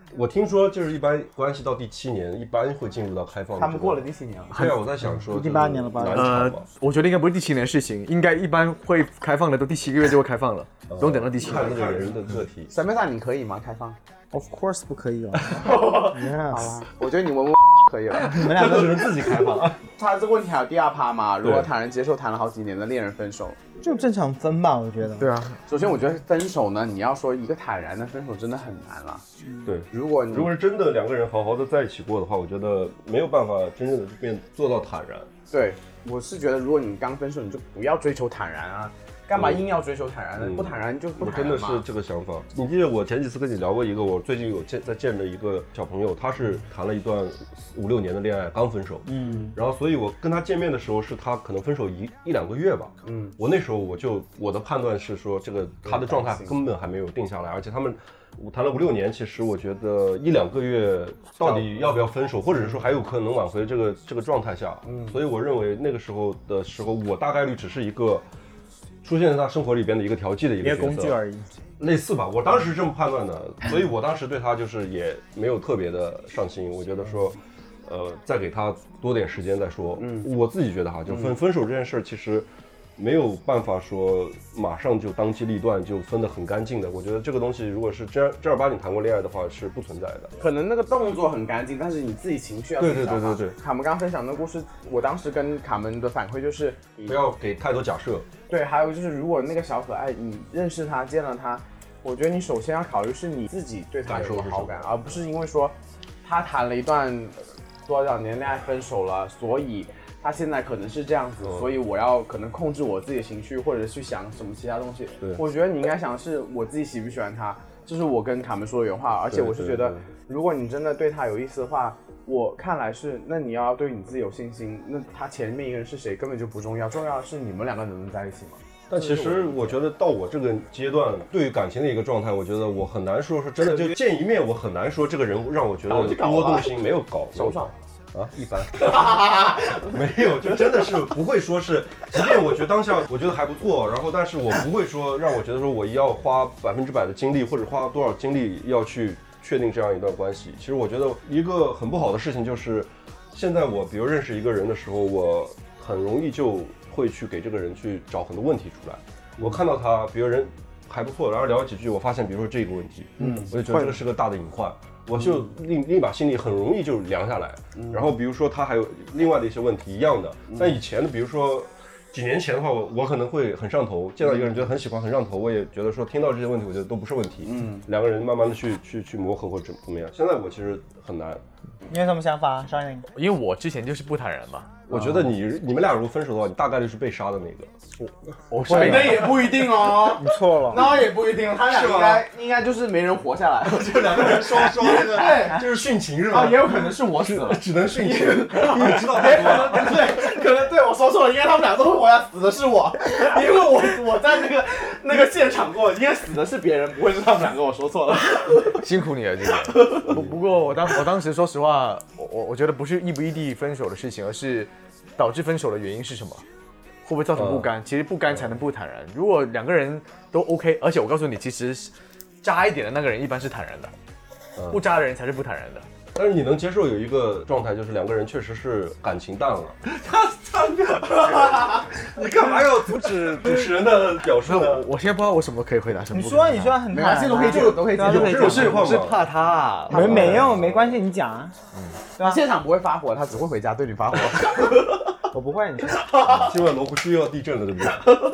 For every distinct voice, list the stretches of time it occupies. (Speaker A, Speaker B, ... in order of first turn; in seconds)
Speaker A: 0.1-6.7, 10.9-12.7, 18.3-19.8, 29.6-35.3, 39.3-39.6, 40.4-68.2, 69.0-71.2, 71.8-90.3, 92.8-93.6, 97.1-98.3, 104.0-104.9, 119.3-120.1, 128.9-181.4, 184.9-187.7, 188.7-189.1, 191.6-192.2, 193.7-200.0, 210.0-210.3, 217.3-217.7, 226.1-234.8, 237.4-239.2, 239.9-240.9, 246.3-248.2
Speaker B: 3.5-4.7, 12.7-14.0, 15.6-18.6, 19.8-23.6, 25.6-29.2, 29.9-30.5, 35.5-41.8, 53.0-53.4, 55.8-56.5, 61.4-62.8, 64.8-65.2, 80.0-80.3, 81.1-81.3, 90.4-97.2, 98.5-129.7, 135.9-137.7, 138.8-139.9, 163.2-163.5, 167.8-168.1, 170.5-170.8, 177.4-177.8, 184.9-185.3, 188.7-195.7, 196.3-208.8, 209.7-210.1, 231.1-231.8, 236.9-238.8, 240.0-240.3, 242.2-245.0, 246.2-246.5
Speaker C: 4.5-5.1, 6.1-12.1, 25.2-25.6, 183.1-184.8, 188.0-189.5, 208.7-216.4, 217.0-223.9, 224.7-225.8, 234.3-236.8, 238.2-240.4
Speaker D: 5.3-6.4, 14.3-16.8, 18.1-19.3, 23.8-25.3, 49.0-49.5, 70.6-71.5, 163.2-164.0, 181.9-183.1, 190.2-190.9, 236.1-238.9, 239.9-241.5, 245.3-246.1